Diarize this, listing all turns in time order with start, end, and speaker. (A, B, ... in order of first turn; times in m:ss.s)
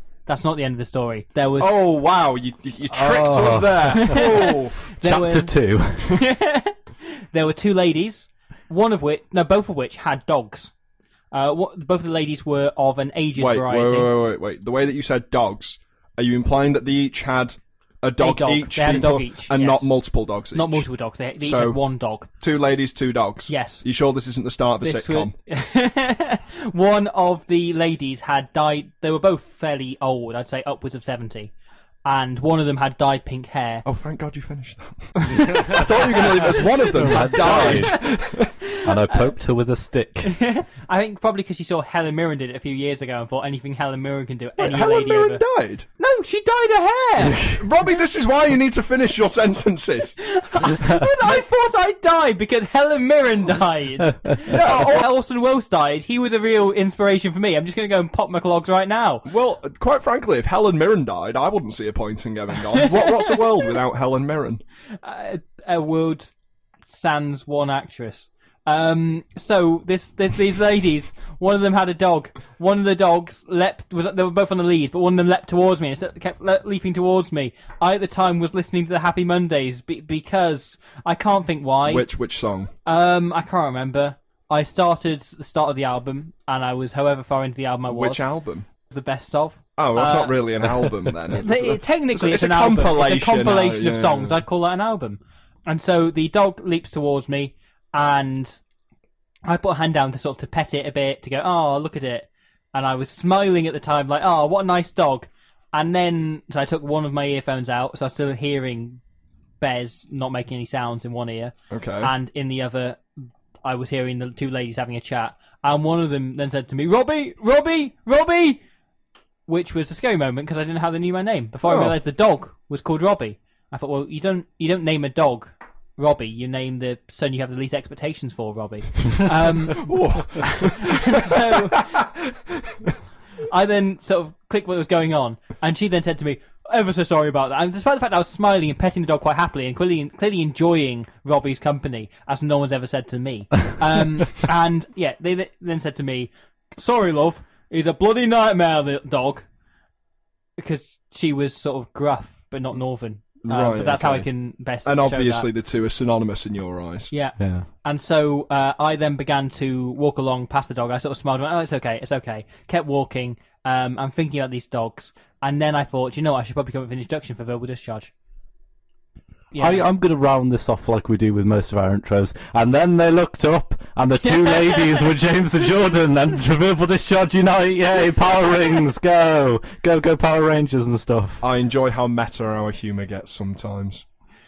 0:00.3-0:01.7 A
0:01.6-0:04.9 B
0:02.9-0:04.3 C
0:04.0-0:05.5 A
0:05.0-0:06.2 C
0:06.1-0:10.7 A
0:11.3-0:14.1 A
0:13.4-0:20.9 B
0:18.2-0:19.9 A
0:20.5-0:22.3 A
0:21.4-0:21.8 B
0:22.4-0:25.3 B
0:23.5-0:23.8 A
0:24.8-0:31.5 A
0:32.0-0:33.8 A
0:33.8-0:38.5 B
0:35.3-0:36.2 A
0:35.4-0:35.8 C
0:36.8-0:38.0 A
0:36.9-0:38.0 C
0:38.8-0:40.3 C
0:40.3-0:45.4 A
0:44.6-0:45.9 B
0:46.0-0:47.5 A
0:47.6-0:50.2 B
0:50.2-0:59.3 A
0:54.5-0:55.1 B
0:59.3-1:04.6 B
1:02.8-1:03.4 A
1:05.0-1:06.3 A
1:06.9-1:22.1 A
1:21.9-1:22.7 B
1:22.9-1:28.2 A
1:27.9-1:28.7 B
1:28.8-1:38.6 A
1:29.8-1:34.4 B
1:39.5-1:49.0 A
1:49.6-1:53.0 A
1:51.7-1:52.1 B
1:53.6-1:58.6 A
1:59.5-2:11.9 A
2:01.7-2:02.0 B
2:09.7-2:12.7 B
2:13.5-2:29.5 A
2:30.6-2:35.5 A
2:33.4-2:34.3 B
2:34.8-2:37.1 B
2:37.1-2:48.1 A
2:37.4-2:37.7 C
2:49.5-2:49.8 A
2:49.6-3:01.4 C
3:01.4-3:04.0 B